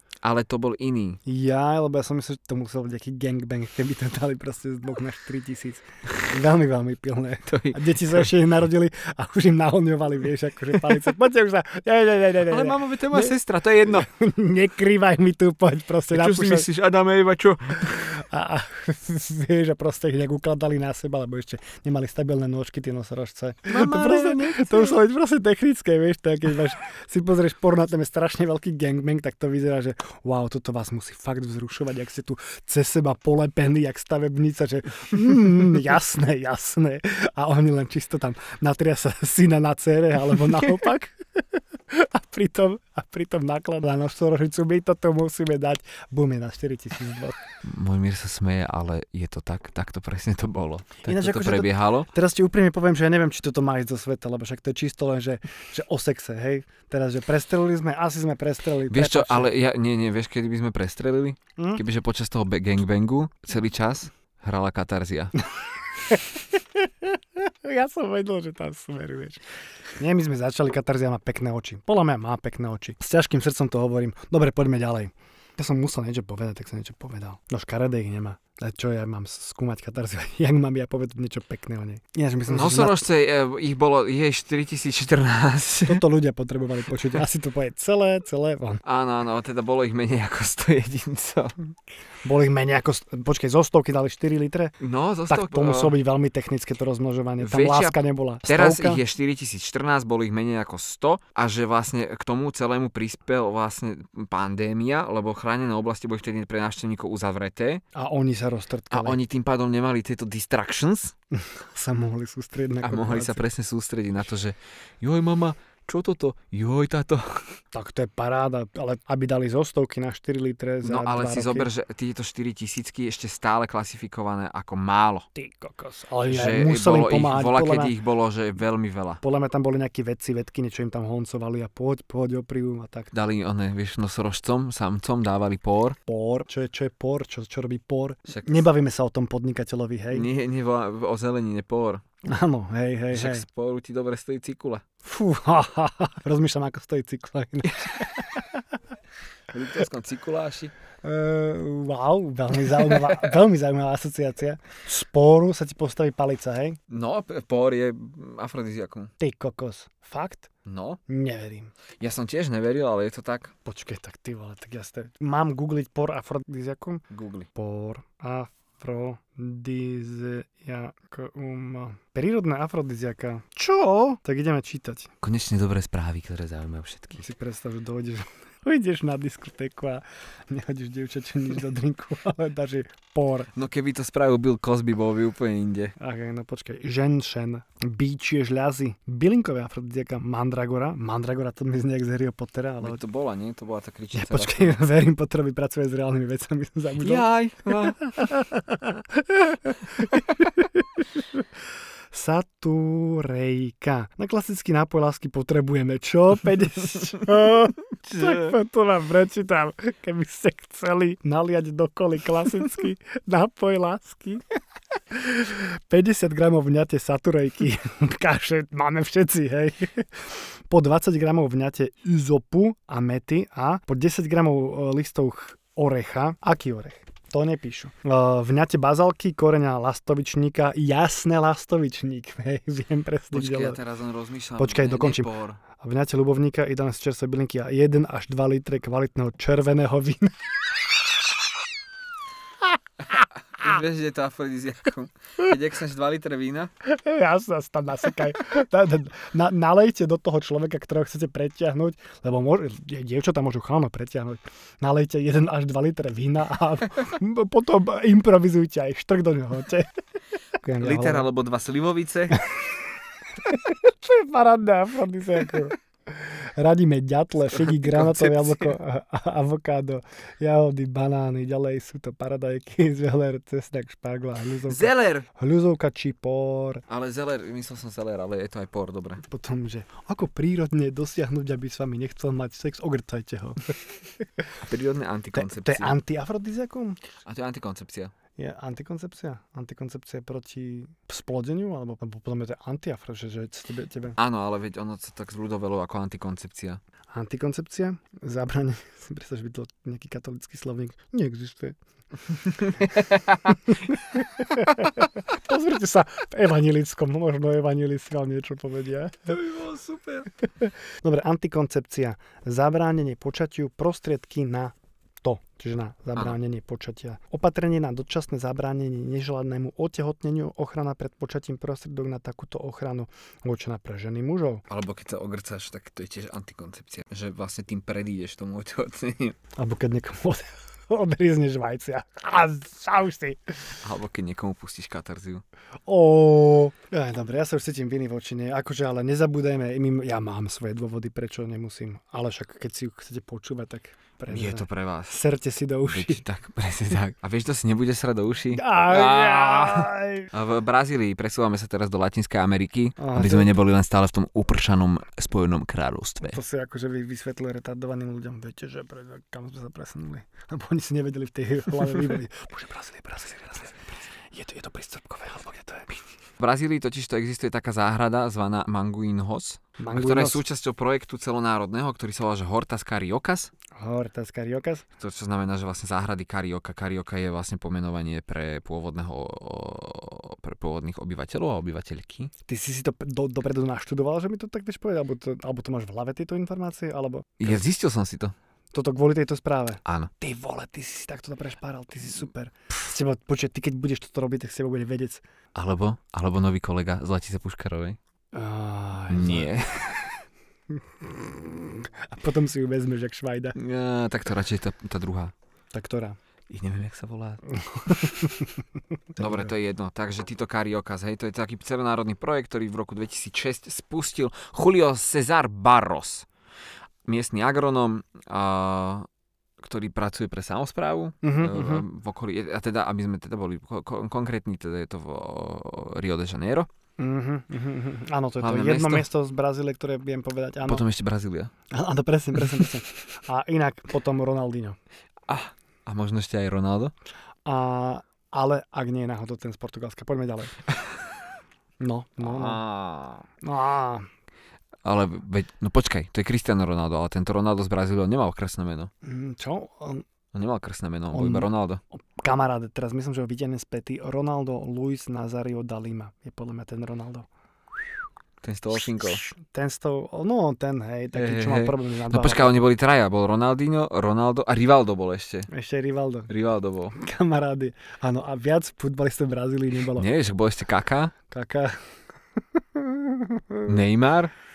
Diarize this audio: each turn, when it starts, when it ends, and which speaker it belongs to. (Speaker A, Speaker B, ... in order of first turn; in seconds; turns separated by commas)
Speaker A: 0.2-1.2, Speaker B: 1.3-16.7, Speaker A: 7.5-8.3, Speaker A: 12.5-14.1, Speaker A: 16.1-18.1, Speaker B: 17.9-47.4, Speaker A: 23.7-25.0, Speaker A: 47.6-52.1, Speaker B: 51.0-59.5, Speaker A: 58.9-65.4, Speaker B: 61.6-61.8, Speaker B: 66.1-69.4, Speaker B: 70.0-83.0, Speaker A: 82.5-86.0, Speaker B: 85.9-88.8, Speaker A: 88.8-91.5, Speaker B: 92.2-94.8, Speaker A: 94.8-96.0, Speaker B: 95.3-99.0, Speaker A: 97.4-107.8, Speaker B: 107.9-109.2, Speaker A: 108.9-111.2, Speaker B: 111.3-113.5, Speaker A: 112.8-117.5, Speaker B: 117.7-121.7, Speaker A: 120.8-125.3, Speaker B: 125.4-127.9, Speaker A: 126.3-129.2, Speaker B: 129.2-133.1, Speaker A: 133.1-136.0, Speaker B: 136.1-140.3, Speaker A: 138.3-138.7, Speaker A: 140.1-142.0, Speaker B: 142.2-143.4, Speaker A: 143.1-144.8, Speaker B: 145.0-148.6, Speaker A: 149.5-150.7, Speaker B: 151.0-156.8, Speaker A: 152.8-153.3, Speaker A: 156.9-159.1, Speaker B: 159.2-160.5, Speaker A: 160.7-161.0, Speaker B: 161.1-161.7, Speaker A: 162.0-163.5, Speaker B: 163.7-175.1, Speaker A: 167.1-167.5, Speaker A: 175.2-177.2, Speaker B: 177.2-183.5, Speaker A: 183.5-185.9, Speaker B: 186.0-193.0, Speaker A: 192.8-194.8, Speaker B: 194.1-201.4, Speaker A: 197.0-198.1, Speaker B: 202.1-214.4, Speaker A: 208.0-208.6, Speaker B: 215.1-233.8, Speaker A: 233.3-235.6, Speaker B: 234.6-240.6, Speaker A: 243.1-246.7, Speaker B: 246.8-259.9, Speaker B: 260.6-261.3, Speaker A: 260.8-262.4, Speaker B: 263.4-276.8, Speaker A: 267.5-268.8, Speaker A: 274.7-275.3, Speaker A: 276.9-279.2, Speaker B: 279.2-284.5, Speaker A: 284.6-286.0, Speaker B: 285.3-287.0, Speaker A: 287.2-288.1, Speaker B: 288.4-294.2, Speaker A: 294.2-296.8, Speaker B: 297.1-301.8, Speaker A: 302.6-303.5, Speaker B: 303.5-309.4, Speaker A: 309.3-310.3, Speaker B: 310.6-324.6, Speaker A: 324.7-329.4, Speaker B: 329.6-333.6, Speaker A: 333.8-335.4, Speaker B: 335.9-346.2, Speaker A: 344.3-345.2, Speaker A: 345.9-356.4, Speaker B: 348.5-350.3, Speaker B: 353.0-353.5, Speaker B: 356.2-365.9, Speaker A: 366.4-373.5, Speaker B: 369.8-370.4, Speaker B: 373.8-374.9, Speaker A: 375.0-382.3, Speaker B: 382.5-387.6, Speaker A: 387.4-388.3, Speaker B: 388.7-395.2, Speaker A: 389.9-390.1, Speaker A: 395.6-398.0, Speaker B: 398.3-399.5, Speaker A: 399.1-400.1, Speaker B: 400.7-403.6, Speaker A: 403.6-405.3, Speaker B: 405.7-406.2, Speaker A: 406.5-408.3, Speaker B: 407.7-408.6, Speaker B: 409.2-409.5, Speaker A: 409.2-416.3, Speaker A: 417.1-419.1, Speaker A: 419.6-426.7, Speaker B: 421.2-421.9, Speaker B: 427.0-430.9, Speaker A: 428.4-429.1, Speaker A: 430.6-431.5, Speaker B: 431.7-434.8, Speaker A: 435.3-436.9, Speaker B: 437.4-440.6, Speaker B: 441.8-442.6, Speaker A: 442.2-443.3, Speaker B: 443.4-444.1, Speaker A: 444.9-448.9, Speaker B: 449.0-450.1, Speaker A: 450.3-451.8, Speaker B: 451.1-457.3, Speaker A: 458.4-459.2, Speaker B: 459.1-462.6, Speaker A: 461.1-465.5, Speaker B: 465.5-466.3, Speaker A: 466.3-467.0, Speaker B: 466.9-470.1, Speaker A: 469.9-471.1, Speaker B: 471.3-471.8, Speaker B: 472.6-473.8, Speaker A: 473.6-474.3